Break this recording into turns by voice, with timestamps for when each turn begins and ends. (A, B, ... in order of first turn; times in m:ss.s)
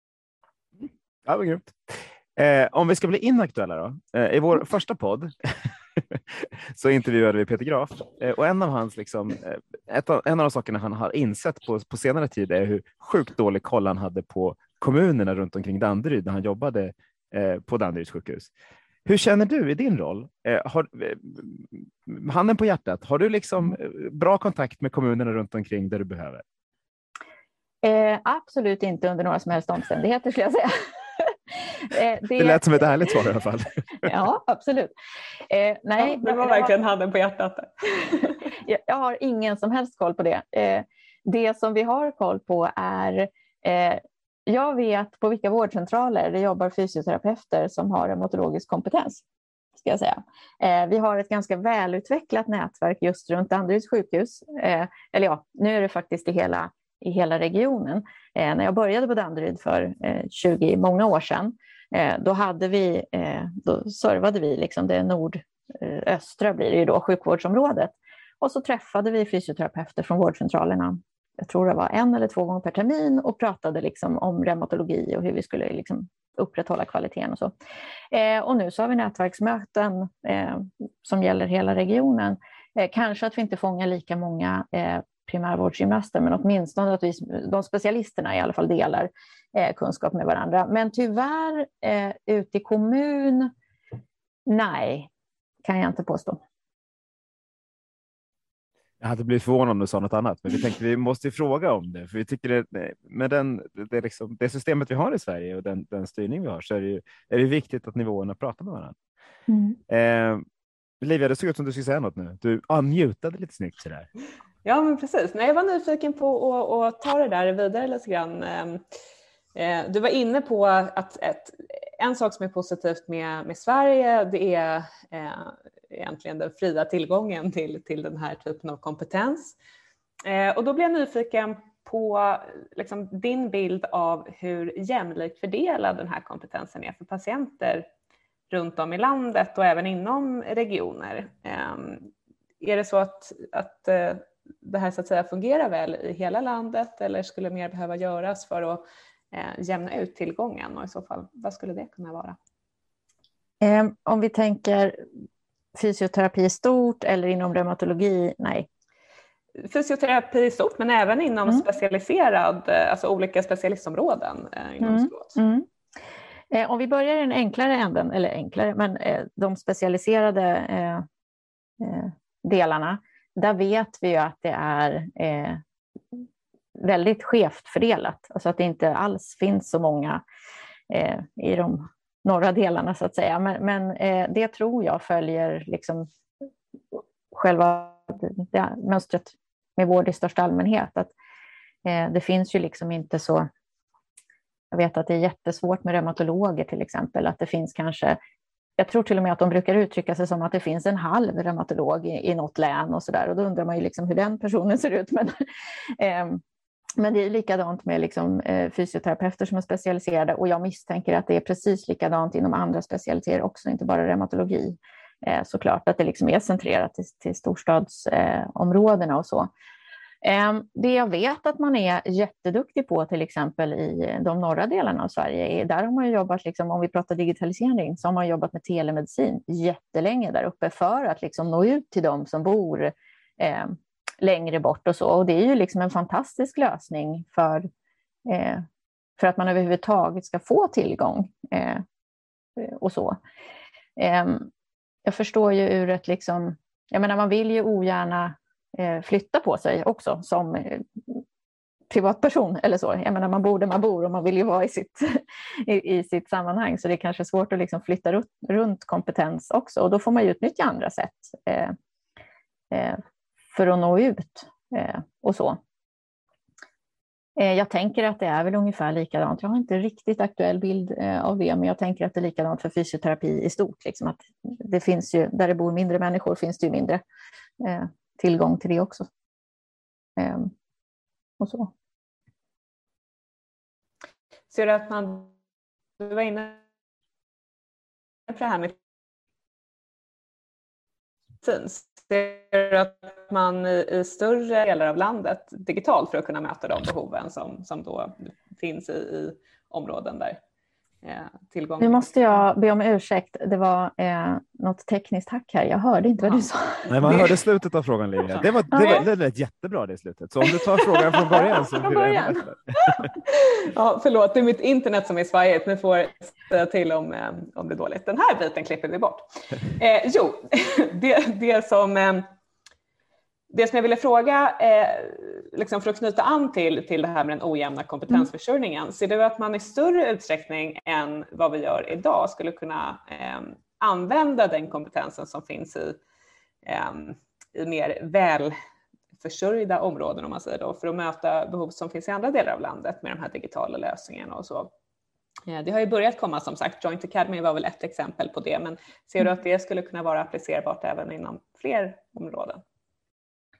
0:00.8-0:18.5 A
0:19.0-0:26.4 A
0:27.8-0:32.6 B
0:32.4-0:34.1 A
0:34.0-0:34.9 B
0:35.5-0:36.7 B
0:36.0-0:38.4 C
0:38.6-0:49.2 B
0:49.8-1:17.5 B
1:18.1-1:33.5 B
1:34.5-1:35.1 B
1:35.6-1:36.4 B
1:39.0-1:49.0 A
1:49.5-1:49.8 B
1:49.9-1:50.4 A
1:51.0-1:54.1 A
1:54.6-1:58.8 C
1:59.6-2:09.6 C
2:10.2-2:17.9 C
2:18.5-2:32.4 C
2:33.6-2:35.0 B
2:35.7-2:38.7 B
2:39.6-2:45.4 C
2:44.8-2:45.7 B
2:46.5-2:51.0 B
2:51.8-2:55.6 B
2:56.8-3:00.2 B
3:00.9-3:06.0 B
3:07.3-3:11.1 B
3:11.8-3:13.5 B
3:14.7-3:18.2 B
3:18.8-3:25.4 B
3:26.0-3:26.4 B
3:27.0-3:39.5 B
3:40.2-3:57.7 B
3:58.3-3:58.6 B
3:59.2-4:01.8 B
4:02.6-4:03.2 B
4:04.0-4:04.5 B
4:05.0-4:11.2 B
4:11.9-4:21.8 B
4:22.7-4:23.0 B
4:23.5-4:25.6 B
4:27.4-4:37.0 B
4:37.6-4:39.1 B
4:40.2-4:40.5 B
4:41.4-4:41.7 B
4:44.5-4:45.3 C
4:46.0-4:46.6 C
4:48.3-4:48.7 C
4:51.4-5:00.4 C
5:01.0-5:02.0 C
5:01.8-5:07.2 B
5:06.9-5:13.1 A
5:07.0-5:07.4 C
5:08.3-5:09.0 C
5:08.7-5:09.0 B
5:11.3-5:13.0 B
5:13.3-5:22.3 C
5:23.5-5:36.0 C
5:36.6-5:38.6 C
5:39.2-5:44.7 C
5:45.4-5:52.6 C